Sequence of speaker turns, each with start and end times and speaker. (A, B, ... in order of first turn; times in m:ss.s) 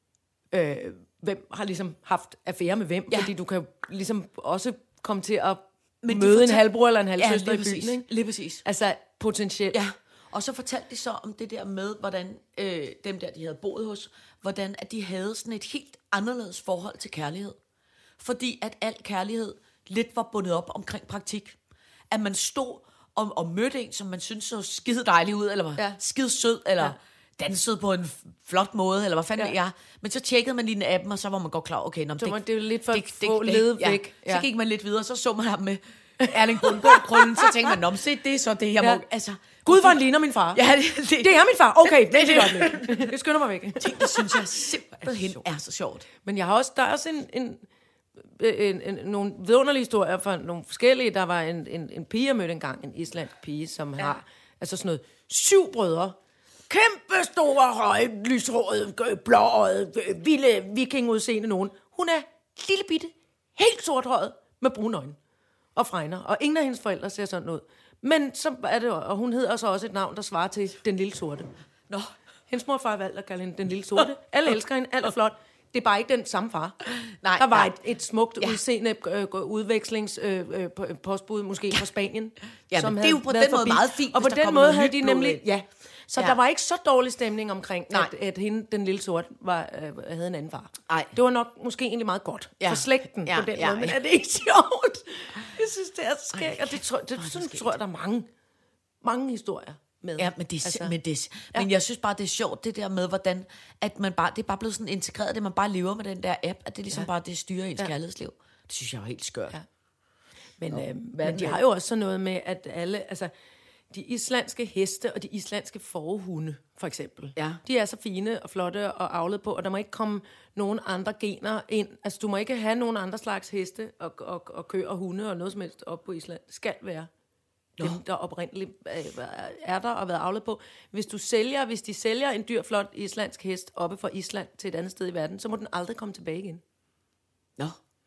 0:00.5-0:08.1 A
0:06.0-0:08.6 B
0:08.6-0:09.8 A
0:09.7-0:17.6 B
0:18.2-0:21.6 B
0:22.1-0:43.2 B
0:32.2-0:34.5 A
0:36.2-0:37.8 A
0:38.8-0:39.0 A
0:39.6-0:40.6 A
0:41.2-0:45.4 A
0:43.8-0:46.1 B
0:46.2-0:47.6 A
0:48.4-0:56.2 A
0:56.7-1:05.2 A
1:05.8-1:11.5 A
1:12.5-1:16.8 A
1:17.1-1:17.7 B
1:17.4-1:38.3 A
1:22.7-1:25.4 B
1:30.9-1:31.1 B
1:32.6-1:34.0 B
1:36.3-1:37.7 B
1:39.0-1:41.0 A
1:40.2-1:49.6 B
1:50.6-1:53.3 A
1:50.7-1:51.6 B
1:53.9-2:07.1 A
1:57.4-1:57.6 B
2:07.8-2:16.6 A